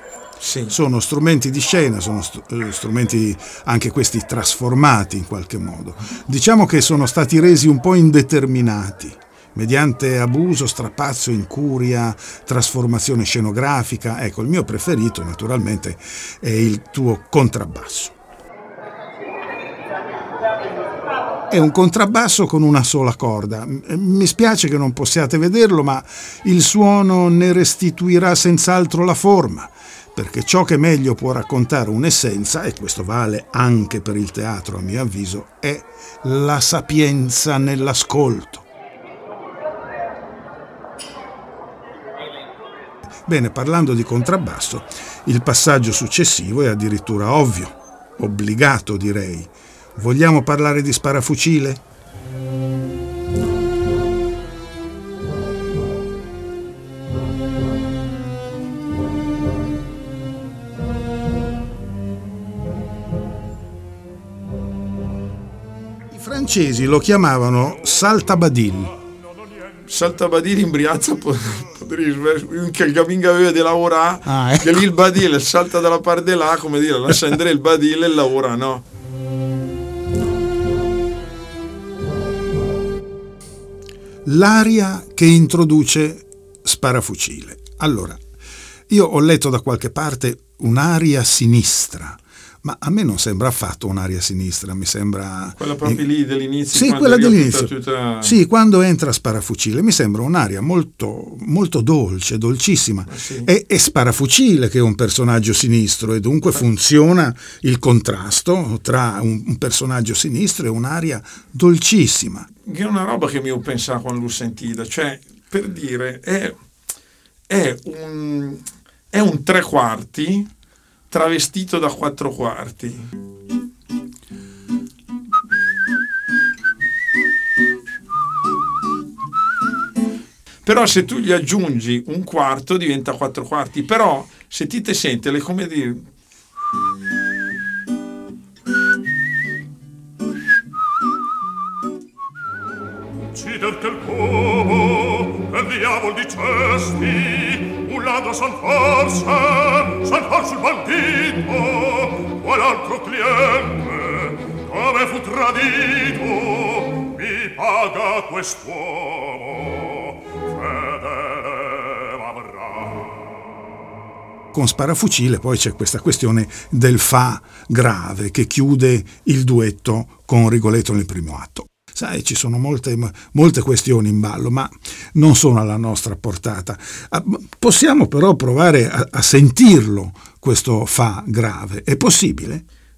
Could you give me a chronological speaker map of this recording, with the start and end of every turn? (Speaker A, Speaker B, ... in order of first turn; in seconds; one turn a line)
Speaker A: 0.4-0.7
Speaker B: 0.7-18.1
Speaker B: 21.5-38.7
Speaker B: 43.3-51.8
Speaker B: 66.1-69.0
Speaker A: 69.9-78.8
Speaker B: 74.2-74.9
Speaker B: 84.2-88.2
Speaker B: 88.9-96.0
Speaker A: 95.6-98.4
Speaker B: 96.7-112.5
Speaker A: 103.1-103.5
Speaker A: 112.7-116.6
Speaker A: 117.5-120.5
Speaker A: 121.1-123.0
Speaker A: 130.7-136.1
Speaker C: 143.3-162.9
Speaker B: 164.5-182.6